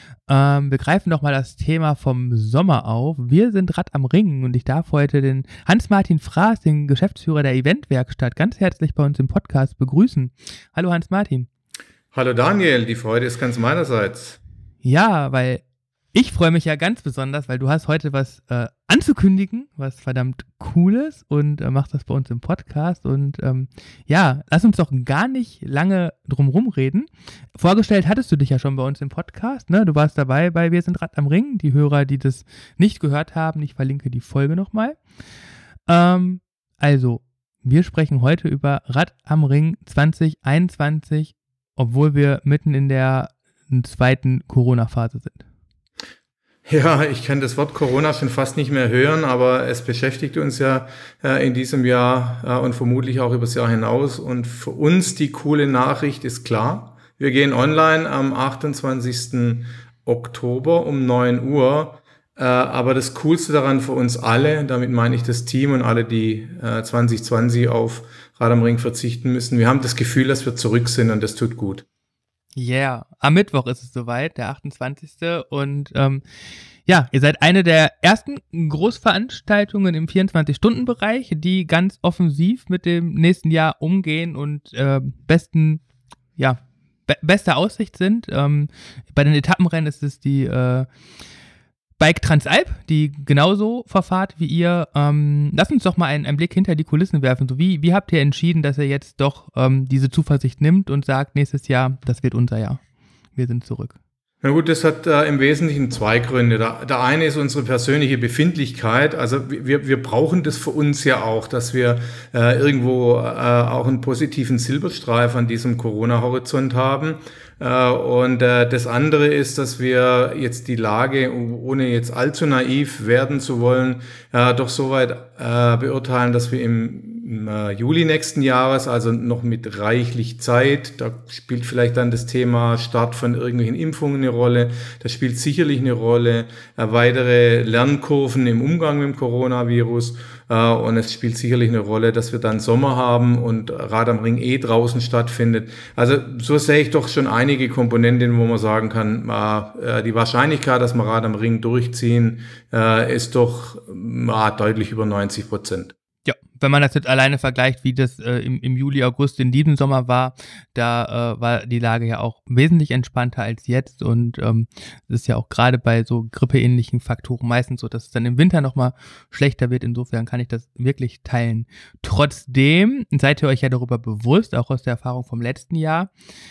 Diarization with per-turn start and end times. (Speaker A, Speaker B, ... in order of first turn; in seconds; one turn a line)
Speaker A: 0.3-11.5
Speaker B: 12.1-14.4
Speaker A: 14.8-15.6
Speaker A: 16.1-35.0
Speaker A: 35.9-45.4
Speaker B: 46.7-71.8
Speaker A: 72.5-76.2
Speaker A: 76.9-85.8
Speaker A: 86.4-90.9
Speaker A: 92.0-102.8
Speaker A: 103.4-103.9
Speaker B: 104.4-155.9
Speaker A: 156.2-176.1